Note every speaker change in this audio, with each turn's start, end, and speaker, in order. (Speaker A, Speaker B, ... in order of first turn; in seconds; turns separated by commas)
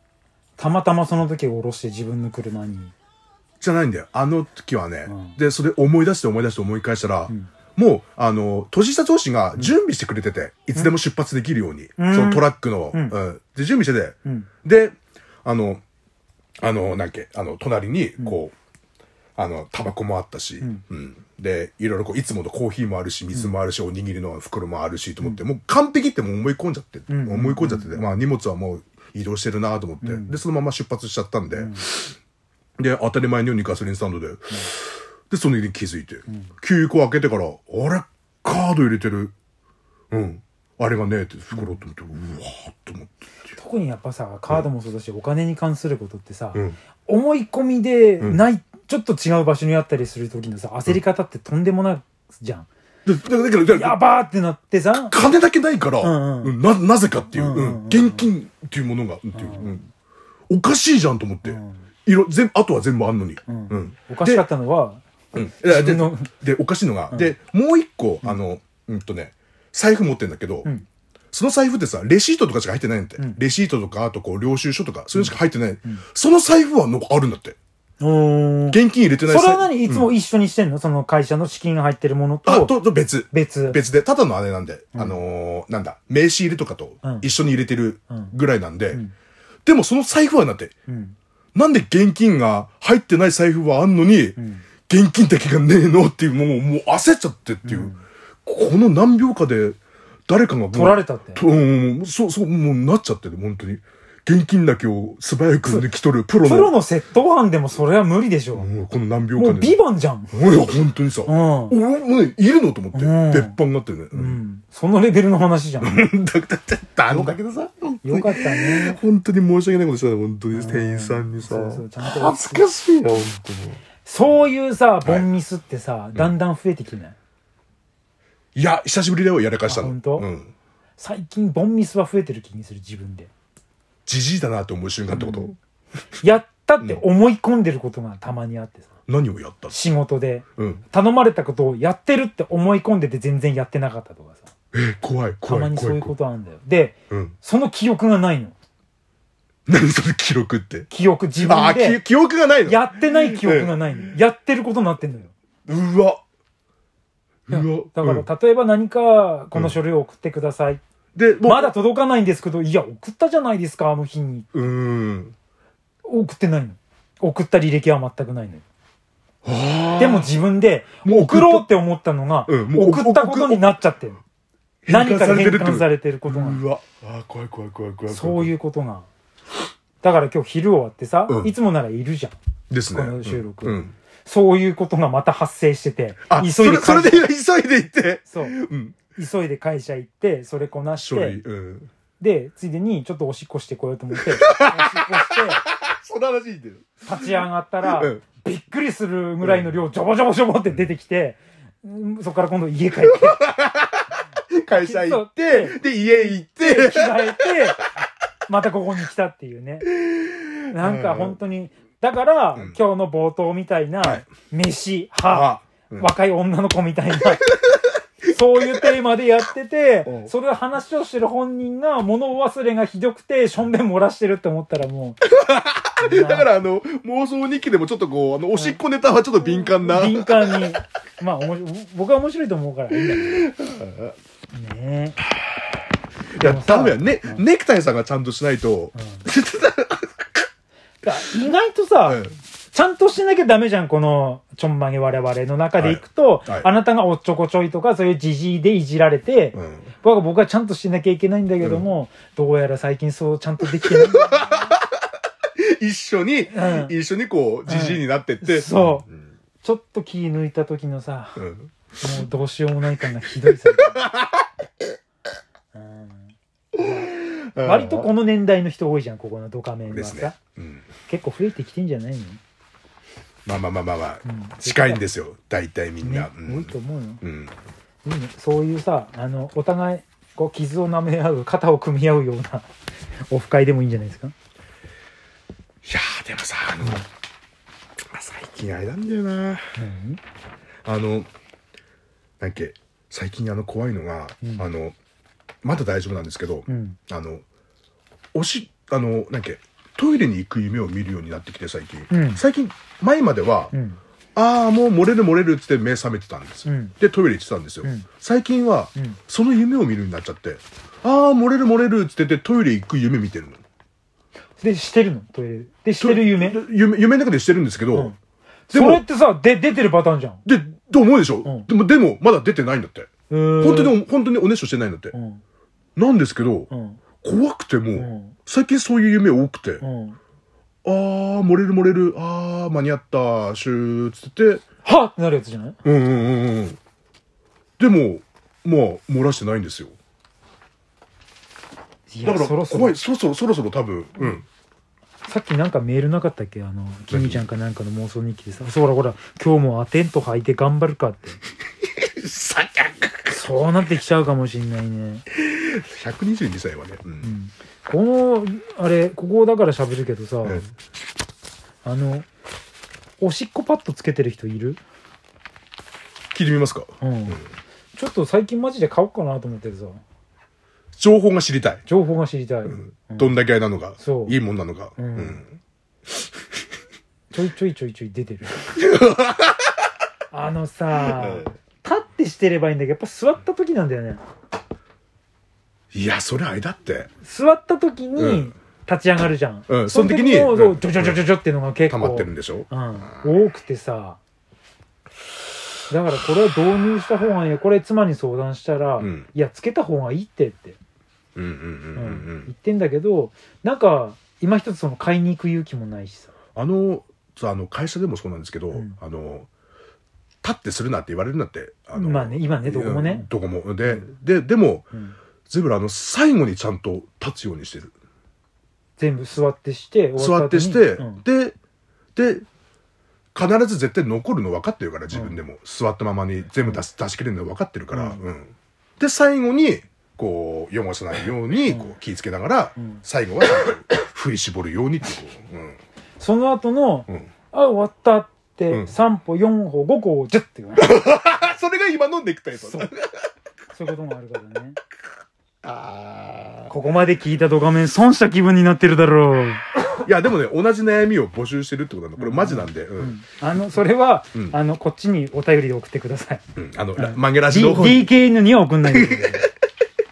Speaker A: 0.6-2.9, Speaker B: 3.6-15.8, Speaker A: 5.1-5.3, Speaker A: 12.0-13.1, Speaker B: 16.6-18.5, Speaker B: 19.4-32.1, Speaker A: 27.1-28.0, Speaker A: 30.0-30.4, Speaker A: 31.6-31.8, Speaker B: 32.8-39.3, Speaker B: 40.1-43.2, Speaker A: 43.5-52.7, Speaker B: 53.0-54.0, Speaker A: 53.7-55.1, Speaker B: 55.1-59.9, Speaker A: 56.0-56.5, Speaker A: 57.3-58.3, Speaker A: 59.3-59.7, Speaker B: 60.5-64.5, Speaker A: 61.4-61.8, Speaker A: 63.5-65.0, Speaker B: 65.3-70.7, Speaker A: 65.6-66.3, Speaker B: 71.3-77.6, Speaker A: 78.0-82.7, Speaker B: 78.7-80.1, Speaker B: 82.5-89.0, Speaker A: 83.3-83.8, Speaker B: 89.6-90.7, Speaker A: 90.9-91.1, Speaker B: 91.5-97.9, Speaker A: 94.4-94.6, Speaker A: 97.6-98.0, Speaker B: 98.5-106.7, Speaker A: 100.7-101.4, Speaker A: 106.4-108.7, Speaker B: 108.5-109.8, Speaker A: 109.3-110.3, Speaker B: 110.3-114.4, Speaker A: 111.3-111.8, Speaker A: 112.9-113.5, Speaker A: 114.1-116.0, Speaker B: 115.8-123.8, Speaker A: 118.0-119.0, Speaker A: 120.5-122.7, Speaker A: 124.0-127.1, Speaker B: 125.0-125.3, Speaker B: 128.5-130.5, Speaker A: 129.7-130.3, Speaker A: 131.0-133.3, Speaker B: 134.1-135.5, Speaker A: 135.1-135.5, Speaker A: 136.2-138.9, Speaker B: 139.1-139.8, Speaker A: 139.7-144.5, Speaker B: 140.6-140.8, Speaker B: 144.7-146.1, Speaker A: 145.4-148.5, Speaker B: 147.1-147.3, Speaker B: 149.7-150.9, Speaker A: 150.9-152.0, Speaker B: 151.4-154.1, Speaker A: 152.6-155.3, Speaker B: 155.7-156.2, Speaker B: 157.5-158.2, Speaker A: 157.5-160.8, Speaker B: 161.1-161.7, Speaker A: 161.4-164.5, Speaker B: 164.5-165.3, Speaker A: 166.0-168.6, Speaker B: 169.4-170.4, Speaker A: 170.0-174.2, Speaker B: 171.0-171.7, Speaker B: 172.5-173.7, Speaker B: 174.8-178.5, Speaker A: 174.9-176.6, Speaker A: 178.1-179.1, Speaker A: 180.0-182.4, Speaker B: 181.3-181.5, Speaker B: 182.7-183.9, Speaker A: 182.9-187.2, Speaker B: 186.3-189.0, Speaker A: 188.3-188.6, Speaker A: 189.1-191.4, Speaker B: 190.9-191.9, Speaker A: 192.2-195.6, Speaker B: 194.2-197.3, Speaker A: 197.0-203.4, Speaker B: 197.9-198.2, Speaker B: 199.4-199.7, Speaker B: 203.0-207.7, Speaker A: 204.7-207.9, Speaker A: 208.5-209.9, Speaker B: 209.9-211.4, Speaker A: 210.7-217.5, Speaker B: 214.0-214.2, Speaker B: 215.3-216.1, Speaker B: 217.4-218.8, Speaker A: 218.2-225.2, Speaker B: 220.1-220.3, Speaker B: 225.3-230.8, Speaker A: 226.0-226.5, Speaker A: 229.4-233.5, Speaker B: 233.0-234.1, Speaker A: 234.5-235.2, Speaker B: 236.3-240.2, Speaker A: 236.4-237.4, Speaker A: 238.9-239.2, Speaker A: 241.0-254.7, Speaker B: 242.1-242.3, Speaker B: 245.8-246.7, Speaker B: 249.5-249.9, Speaker B: 253.6-254.9, Speaker B: 255.6-259.1, Speaker A: 256.5-256.9, Speaker A: 257.7-259.1, Speaker A: 259.6-261.4, Speaker B: 261.4-261.7, Speaker A: 262.0-264.0, Speaker B: 263.7-264.4, Speaker A: 265.7-270.4, Speaker B: 266.7-268.1, Speaker B: 269.9-270.9, Speaker A: 271.1-272.4, Speaker B: 273.4-277.5, Speaker A: 274.2-275.0, Speaker A: 276.0-277.2, Speaker A: 278.0-282.7, Speaker A: 283.3-284.3, Speaker B: 285.8-287.0, Speaker B: 288.1-289.7, Speaker A: 289.8-290.2, Speaker B: 290.8-291.3, Speaker B: 292.4-294.9, Speaker B: 295.6-297.4, Speaker A: 296.7-297.0, Speaker B: 298.3-303.7, Speaker A: 302.1-302.4, Speaker A: 303.7-304.0, Speaker B: 304.4-313.6, Speaker A: 306.6-306.9, Speaker A: 314.6-316.6, Speaker B: 316.0-318.1, Speaker A: 318.7-320.4, Speaker B: 318.7-319.0, Speaker B: 320.4-325.1, Speaker A: 323.3-324.0, Speaker A: 325.1-325.4, Speaker B: 325.9-326.7, Speaker A: 326.7-327.0, Speaker B: 327.2-329.8, Speaker A: 327.9-328.3, Speaker A: 329.8-330.2, Speaker B: 330.8-334.6, Speaker A: 334.8-335.8, Speaker B: 335.8-336.8, Speaker B: 337.8-339.9, Speaker A: 342.1-342.9, Speaker B: 342.2-344.4, Speaker A: 345.2-351.4, Speaker B: 347.1-347.4, Speaker B: 352.0-353.4, Speaker A: 353.3-355.2, Speaker B: 355.3-357.3, Speaker A: 357.2-360.6, Speaker B: 360.4-360.7, Speaker A: 361.8-362.3, Speaker A: 363.2-364.8, Speaker B: 366.3-367.4, Speaker A: 367.0-367.4, Speaker A: 367.9-370.0, Speaker B: 371.0-371.8, Speaker A: 371.9-373.3, Speaker B: 372.7-375.5, Speaker A: 374.0-374.4, Speaker A: 375.0-375.4, Speaker A: 377.3-378.7, Speaker B: 378.7-379.7, Speaker A: 380.3-384.2, Speaker B: 381.0-381.5, Speaker B: 385.9-387.1, Speaker A: 387.2-394.2, Speaker B: 388.2-388.5, Speaker B: 389.7-391.3, Speaker B: 391.9-392.7, Speaker A: 395.9-400.8, Speaker B: 399.0-399.2, Speaker B: 401.3-402.5, Speaker A: 401.9-406.3, Speaker B: 406.5-409.5, Speaker B: 410.4-414.9, Speaker A: 411.9-413.2, Speaker B: 415.5-417.9, Speaker A: 419.0-421.2, Speaker B: 420.2-421.5, Speaker B: 422.1-422.4, Speaker B: 423.3-435.8, Speaker A: 425.1-425.4, Speaker A: 427.9-428.2, Speaker A: 436.2-440.9, Speaker B: 440.8-443.1, Speaker A: 442.6-442.9, Speaker A: 443.7-444.8, Speaker B: 445.6-446.6, Speaker A: 446.7-449.6, Speaker B: 449.9-453.1, Speaker A: 452.2-456.4, Speaker B: 456.6-458.1, Speaker A: 457.0-459.5, Speaker B: 458.9-459.4